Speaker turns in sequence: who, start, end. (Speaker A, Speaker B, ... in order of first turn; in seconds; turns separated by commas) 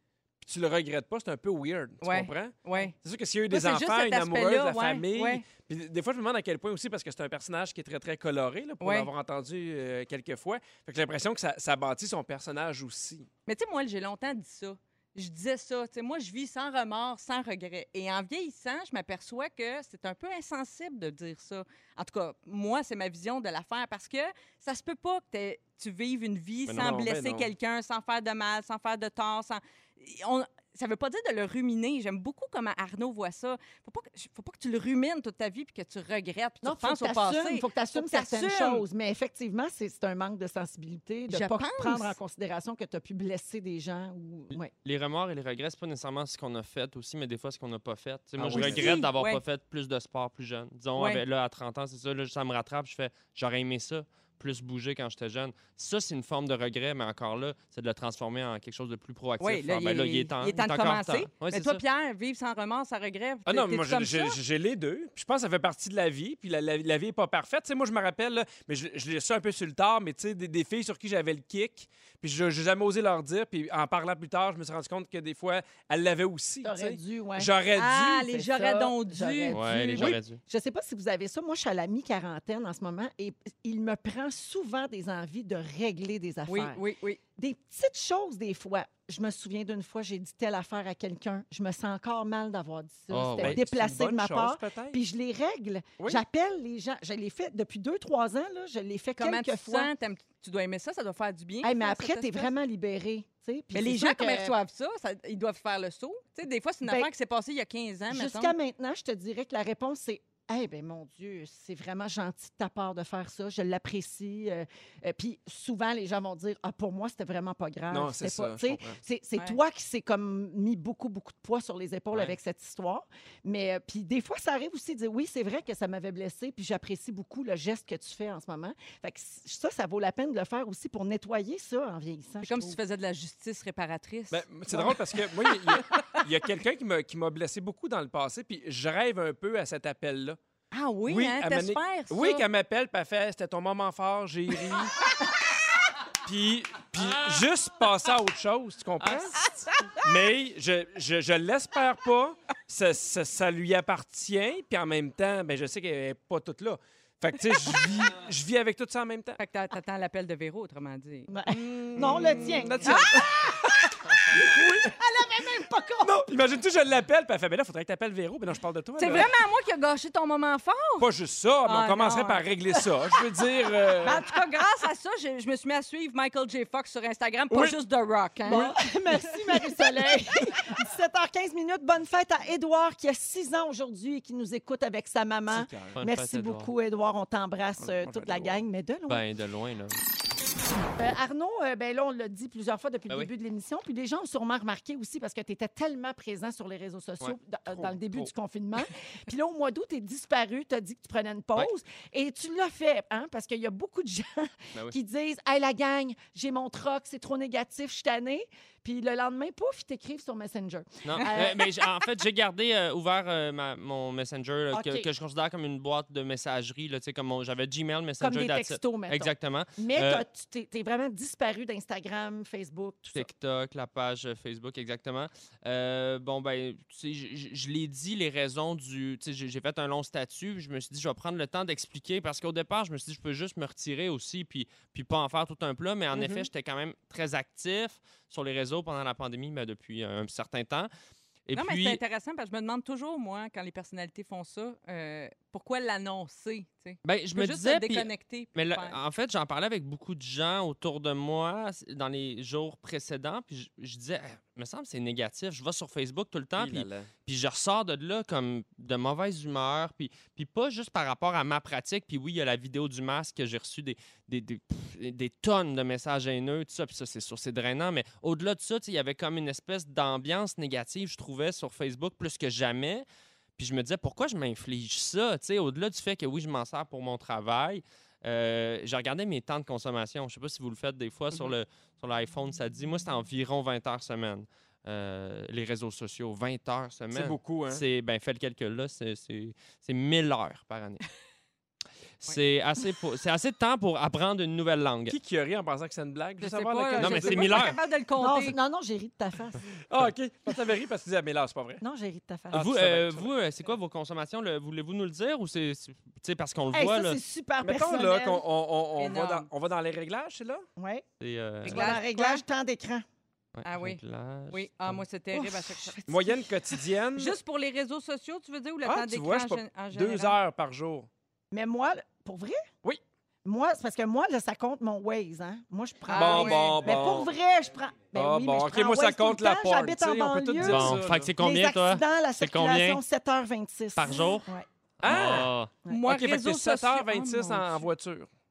Speaker A: 0.4-13.3, Speaker B: 2.0-2.9, Speaker B: 3.5-5.4, Speaker B: 8.8-9.1, Speaker B: 13.5-38.8, Speaker A: 26.7-27.5, Speaker C: 36.6-44.7, Speaker B: 41.3-42.1, Speaker D: 44.8-61.8, Speaker A: 48.4-48.9, Speaker B: 48.5-49.4, Speaker B: 51.0-51.2, Speaker B: 59.4-64.4, Speaker A: 63.5-78.3, Speaker C: 76.6-77.6, Speaker B: 77.7-80.2, Speaker C: 78.3-86.8, Speaker D: 79.5-80.4, Speaker B: 86.5-87.2, Speaker C: 87.4-99.9, Speaker D: 93.1-93.6, Speaker A: 93.4-95.0, Speaker B: 99.2-102.5, Speaker C: 101.6-104.5, Speaker B: 103.7-108.5, Speaker C: 106.8-107.1, Speaker C: 108.1-132.8, Speaker A: 117.9-119.0, Speaker B: 132.4-135.0, Speaker A: 134.3-140.4, Speaker B: 140.7-142.5, Speaker A: 141.0-145.1, Speaker A: 146.2-149.4, Speaker A: 150.0-159.4, Speaker B: 159.4-163.1, Speaker C: 161.3-163.5, Speaker A: 161.9-163.7, Speaker A: 164.3-164.9, Speaker C: 164.3-166.3, Speaker A: 166.0-169.3, Speaker B: 169.0-171.1, Speaker A: 171.0-174.3, Speaker B: 171.7-172.4, Speaker B: 174.0-178.7, Speaker A: 177.5-177.8, Speaker A: 178.5-178.8, Speaker C: 178.5-189.2, Speaker A: 185.5-185.9, Speaker D: 185.9-186.7, Speaker A: 187.8-188.6, Speaker D: 189.1-190.0, Speaker C: 191.0-211.8, Speaker A: 197.7-198.3, Speaker D: 211.0-220.2, Speaker C: 214.7-215.1, Speaker C: 218.2-223.3, Speaker D: 223.1-240.9, Speaker A: 236.1-236.4, Speaker D: 241.5-242.0, Speaker B: 241.5-249.0, Speaker D: 247.0-273.0, Speaker A: 256.6-257.1, Speaker D: 273.6-291.0, Speaker A: 287.1-287.8, Speaker D: 292.2-295.1, Speaker A: 295.1-297.8, Speaker B: 296.4-298.6, Speaker D: 297.0-297.8, Speaker C: 298.2-299.6, Speaker A: 299.9-301.8, Speaker C: 301.8-302.7, Speaker A: 302.5-303.3, Speaker D: 302.5-307.2, Speaker C: 306.7-308.4, Speaker A: 307.6-310.6, Speaker B: 309.0-309.5, Speaker C: 310.8-311.0, Speaker D: 311.2-311.9, Speaker B: 311.6-312.4, Speaker C: 311.6-313.0, Speaker D: 313.5-315.0, Speaker B: 313.6-316.0, Speaker C: 315.3-316.8, Speaker A: 316.1-317.4, Speaker B: 317.1-320.4, Speaker A: 318.8-321.1, Speaker C: 321.5-322.6, Speaker C: 323.4-334.6, Speaker B: 326.1-326.8, Speaker A: 326.1-327.3, Speaker A: 328.1-331.3, Speaker D: 330.6-333.0, Speaker D: 333.9-334.5, Speaker A: 335.0-335.5, Speaker D: 335.0-335.7, Speaker B: 335.9-337.9, Speaker A: 336.1-338.3